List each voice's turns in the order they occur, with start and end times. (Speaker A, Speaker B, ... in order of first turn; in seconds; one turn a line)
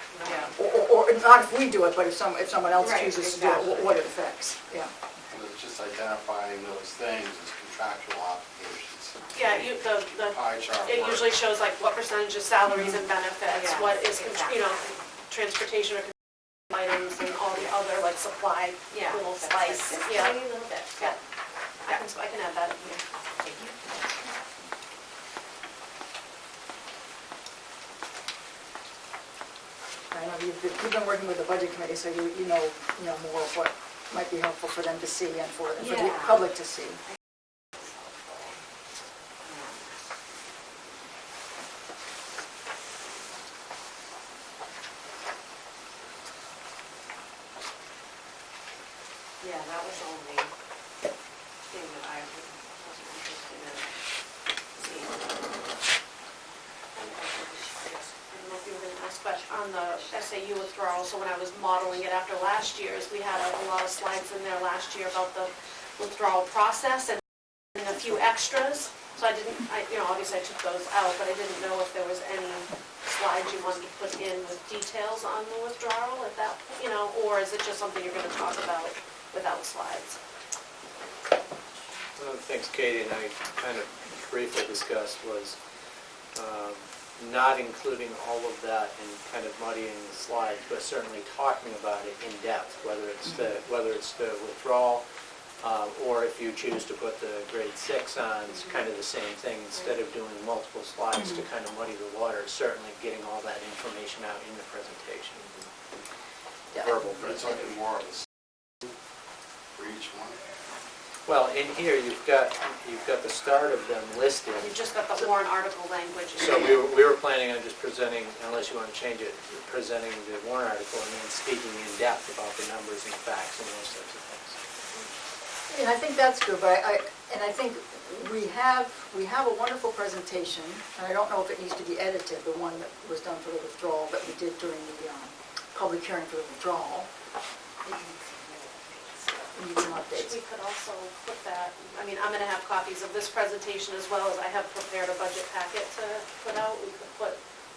Speaker A: 0.2-0.5
Speaker B: 0.5-4.9
Speaker A: 2.8-4.1
Speaker C: 5.3-11.4
Speaker D: 9.3-16.2
Speaker A: 13.6-14.5
Speaker D: 16.7-21.2
Speaker A: 18.9-21.1
Speaker D: 21.9-23.0
Speaker A: 23.4-24.1
Speaker B: 30.1-37.0
Speaker A: 35.9-36.3
Speaker A: 39.5-39.8
Speaker A: 49.4-50.5
Speaker A: 51.7-54.0
Speaker A: 54.8-55.4
Speaker A: 57.0-58.0
Speaker D: 58.3-67.2
Speaker D: 67.8-80.2
Speaker E: 82.2-85.6
Speaker E: 86.3-95.0
Speaker E: 95.6-105.5
Speaker E: 106.8-107.4
Speaker C: 107.3-108.2
Speaker C: 109.8-110.4
Speaker E: 111.3-114.7
Speaker D: 114.6-116.9
Speaker E: 116.4-124.6
Speaker D: 124.8-125.1
Speaker B: 125.7-137.1
Speaker A: 137.8-139.5
Speaker B: 139.5-140.4
Speaker D: 140.0-147.4